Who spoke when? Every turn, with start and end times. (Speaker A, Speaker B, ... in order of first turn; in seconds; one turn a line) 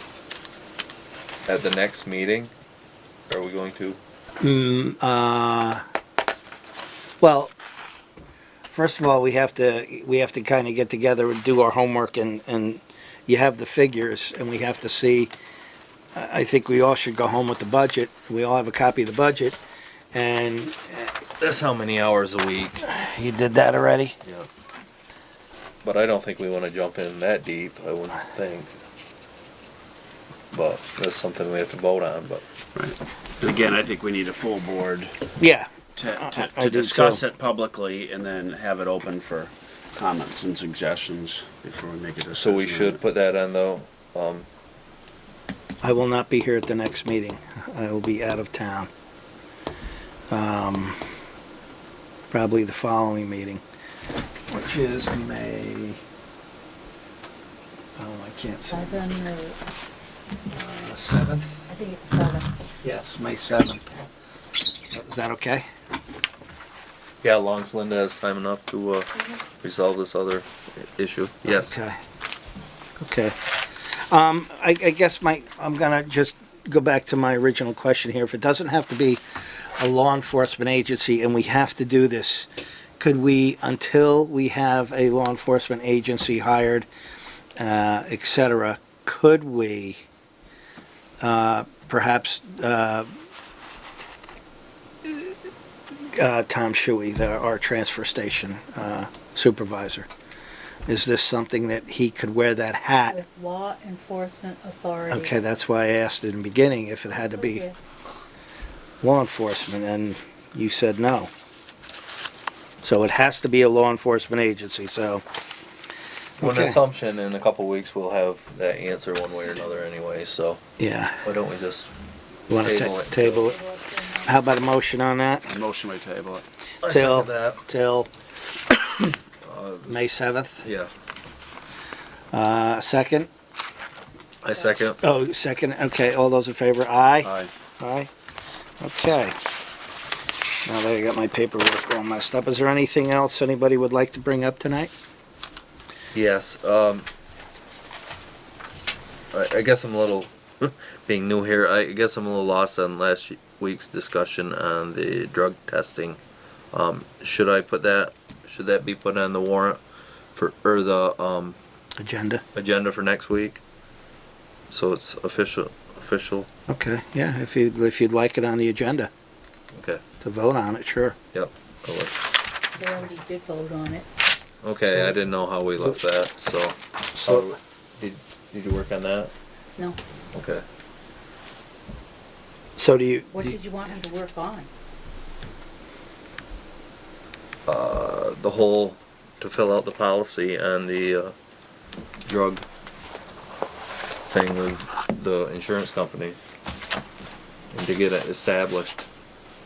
Speaker A: 1.5-2.5
Speaker A: 3.3-4.0
Speaker B: 4.4-5.8
Speaker B: 7.2-7.5
Speaker B: 8.7-15.3
Speaker B: 16.1-19.6
Speaker B: 20.1-21.1
Speaker A: 21.4-22.8
Speaker B: 22.8-24.1
Speaker A: 25.8-28.7
Speaker A: 30.5-32.4
Speaker C: 32.8-35.1
Speaker B: 35.4-35.7
Speaker C: 36.0-43.0
Speaker B: 36.2-37.2
Speaker A: 42.3-44.5
Speaker B: 45.8-48.9
Speaker B: 50.3-51.0
Speaker B: 52.3-53.6
Speaker B: 54.5-56.0
Speaker B: 58.0-58.9
Speaker D: 58.7-59.6
Speaker B: 60.5-61.6
Speaker D: 61.7-62.5
Speaker B: 62.8-63.9
Speaker B: 64.9-65.7
Speaker A: 67.2-69.1
Speaker A: 69.6-71.8
Speaker B: 71.5-72.0
Speaker B: 73.0-73.4
Speaker B: 73.9-79.2
Speaker B: 79.8-86.9
Speaker B: 87.6-90.0
Speaker B: 91.2-93.1
Speaker B: 95.0-95.3
Speaker B: 96.0-100.1
Speaker B: 100.9-103.2
Speaker D: 103.1-105.4
Speaker B: 105.1-107.7
Speaker D: 107.1-107.8
Speaker B: 109.0-111.3
Speaker B: 112.8-115.2
Speaker A: 116.4-120.6
Speaker B: 116.4-116.8
Speaker B: 120.8-121.2
Speaker A: 121.2-121.9
Speaker B: 122.5-123.6
Speaker A: 122.6-123.5
Speaker D: 123.4-124.3
Speaker B: 124.2-125.5
Speaker C: 125.5-126.4
Speaker A: 126.8-127.6
Speaker B: 126.9-128.1
Speaker B: 128.7-129.1
Speaker A: 129.4-130.9
Speaker B: 129.9-130.7
Speaker B: 132.3-133.3
Speaker A: 134.4-135.0
Speaker B: 135.0-138.1
Speaker C: 137.2-137.5
Speaker B: 138.8-139.3
Speaker B: 140.7-144.9
Speaker A: 146.1-147.1
Speaker A: 149.3-156.2
Speaker A: 156.7-159.8
Speaker A: 160.3-161.6
Speaker B: 162.0-162.4
Speaker A: 162.6-163.6
Speaker A: 164.7-166.5
Speaker B: 166.7-169.1
Speaker A: 169.7-170.0
Speaker B: 170.2-171.2
Speaker A: 171.3-172.3
Speaker D: 172.8-174.1
Speaker A: 174.6-179.3
Speaker B: 177.2-177.5
Speaker A: 180.3-180.6
Speaker B: 182.8-183.6
Speaker D: 183.3-184.7
Speaker A: 187.7-191.3
Speaker A: 192.3-192.7
Speaker A: 194.3-196.4
Speaker A: 197.7-199.1